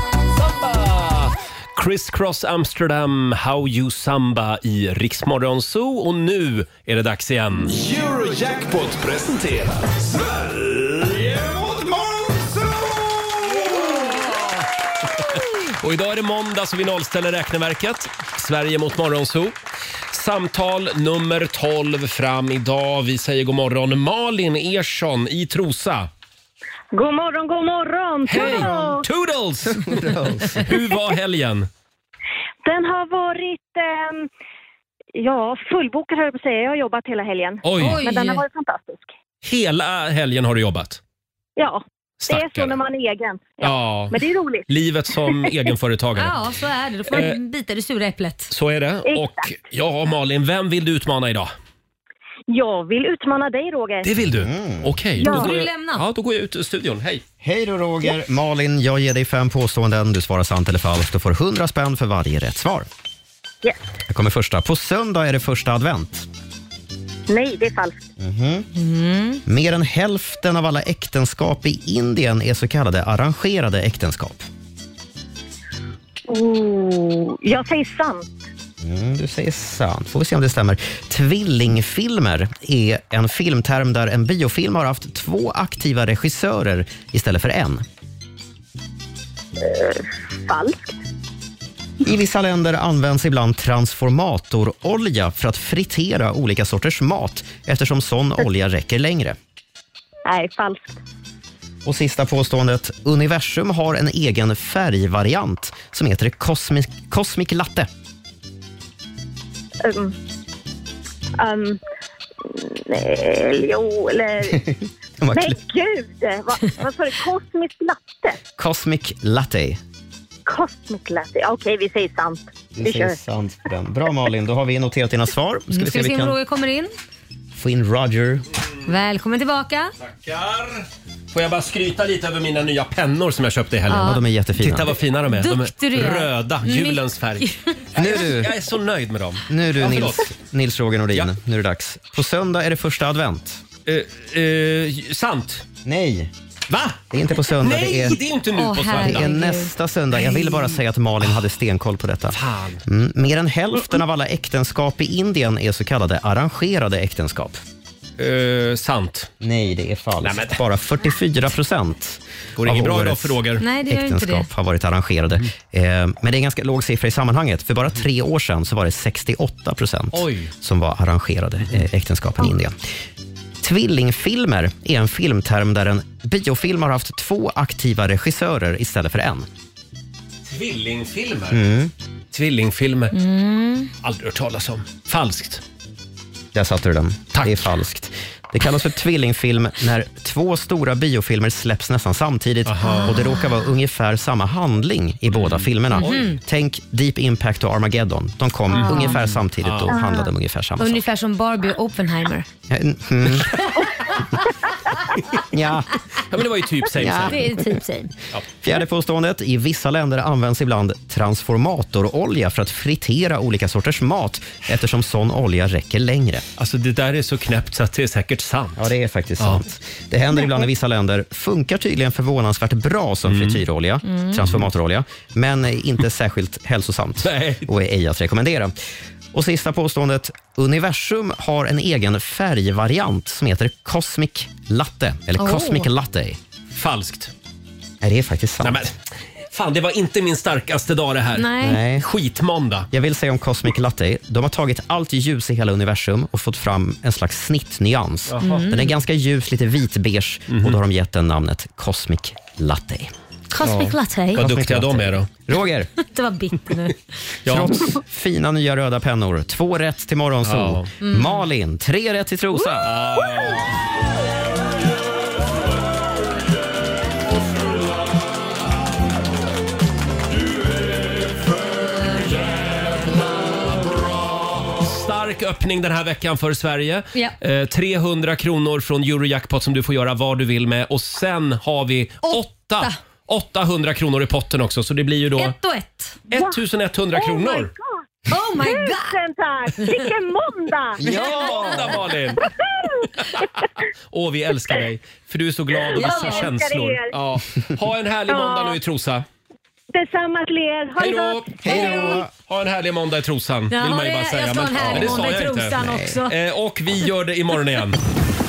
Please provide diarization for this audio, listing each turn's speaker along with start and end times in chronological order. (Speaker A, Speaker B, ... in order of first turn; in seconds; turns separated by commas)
Speaker A: 0.3-7.7, Speaker B: 7.7-13.8, Speaker A: 14.1-14.5, Speaker A: 15.8-19.5, Speaker A: 20.1-26.1, Speaker C: 26.9-29.0, Speaker A: 28.2-31.7, Speaker D: 29.6-30.7, Speaker C: 32.6-34.3, Speaker C: 35.1-39.1, Speaker A: 37.6-38.0, Speaker E: 37.8-38.4, Speaker A: 39.4-41.0, Speaker C: 41.6-44.6, Speaker A: 42.3-42.8, Speaker A: 43.6-44.2, Speaker A: 44.7-46.4, Speaker C: 45.2-45.5, Speaker E: 46.2-48.5, Speaker A: 47.1-47.4, Speaker A: 48.5-51.5, Speaker C: 49.1-49.4, Speaker C: 52.5-54.1, Speaker A: 54.0-57.2, Speaker D: 54.2-55.1, Speaker E: 55.2-56.0, Speaker D: 57.4-62.9, Speaker D: 64.1-66.3, Speaker C: 67.3-68.0, Speaker D: 68.2-68.6, Speaker E: 68.7-69.4, Speaker D: 69.5-74.4, Speaker C: 76.3-78.3, Speaker D: 78.8-87.8, Speaker C: 89.6-91.0, Speaker D: 92.0-99.4, Speaker C: 100.2-101.0, Speaker D: 101.8-107.9, Speaker C: 109.8-110.1, Speaker C: 111.3-111.8, Speaker C: 112.4-114.6, Speaker D: 114.5-115.6, Speaker C: 115.3-118.4, Speaker D: 118.6-119.8, Speaker C: 120.5-123.2, Speaker D: 122.8-126.4, Speaker E: 125.7-126.9, Speaker D: 127.5-128.4, Speaker E: 128.9-129.9, Speaker A: 130.0-140.3, Speaker E: 133.9-134.2, Speaker D: 133.9-135.0, Speaker E: 135.3-137.6, Speaker D: 137.9-138.5, Speaker D: 139.5-143.6, Speaker A: 143.8-145.6, Speaker D: 145.8-146.3, Speaker A: 146.7-149.3, Speaker D: 147.1-148.2, Speaker E: 148.6-149.7, Speaker D: 149.0-157.6, Speaker E: 150.3-150.6, Speaker A: 152.3-152.8, Speaker A: 158.2-159.3, Speaker D: 159.4-172.7, Speaker A: 160.2-160.6, Speaker A: 162.6-163.6, Speaker E: 163.6-164.5, Speaker A: 170.1-170.5, Speaker D: 173.6-179.5, Speaker A: 180.4-181.7, Speaker D: 181.5-181.9, Speaker A: 182.3-183.1, Speaker E: 183.1-183.9, Speaker A: 184.0-185.6, Speaker D: 186.5-201.0, Speaker A: 192.7-193.1, Speaker E: 192.8-193.1, Speaker A: 195.3-196.3, Speaker E: 195.9-196.4, Speaker A: 198.7-199.9, Speaker E: 198.8-199.2, Speaker E: 200.0-200.2, Speaker E: 200.8-202.4, Speaker D: 202.7-203.6, Speaker D: 205.5-205.9, Speaker A: 206.3-207.4, Speaker D: 206.9-207.8, Speaker E: 207.1-208.1, Speaker D: 208.6-216.4, Speaker A: 216.6-218.8, Speaker D: 218.8-228.7, Speaker A: 219.4-219.6, Speaker A: 223.3-223.6, Speaker E: 224.0-224.3, Speaker A: 227.2-227.6, Speaker D: 229.3-236.4, Speaker E: 235.4-235.9, Speaker A: 236.7-237.3, Speaker D: 238.0-238.9, Speaker A: 238.6-239.0, Speaker A: 239.5-242.9, Speaker E: 241.4-241.8, Speaker D: 241.6-242.1, Speaker D: 242.9-253.1, Speaker E: 248.4-248.9, Speaker A: 250.5-250.8, Speaker E: 253.5-254.4, Speaker A: 253.7-255.3, Speaker D: 254.3-255.9, Speaker E: 256.0-257.0, Speaker A: 257.4-257.8, Speaker D: 257.5-262.9, Speaker A: 260.4-260.9, Speaker E: 261.0-261.4, Speaker A: 262.8-263.7, Speaker A: 274.8-285.5, Speaker E: 285.4-286.2, Speaker A: 286.3-287.7, Speaker C: 287.1-287.9, Speaker E: 288.3-289.2, Speaker C: 288.6-291.1, Speaker D: 291.0-291.9, Speaker A: 291.0-292.4, Speaker C: 292.5-293.1, Speaker A: 294.1-299.2, Speaker C: 295.9-297.1, Speaker E: 296.0-296.5, Speaker C: 298.3-298.8, Speaker C: 299.9-302.0, Speaker A: 301.0-308.0, Speaker D: 301.6-302.3, Speaker E: 303.7-306.3, Speaker D: 304.8-306.2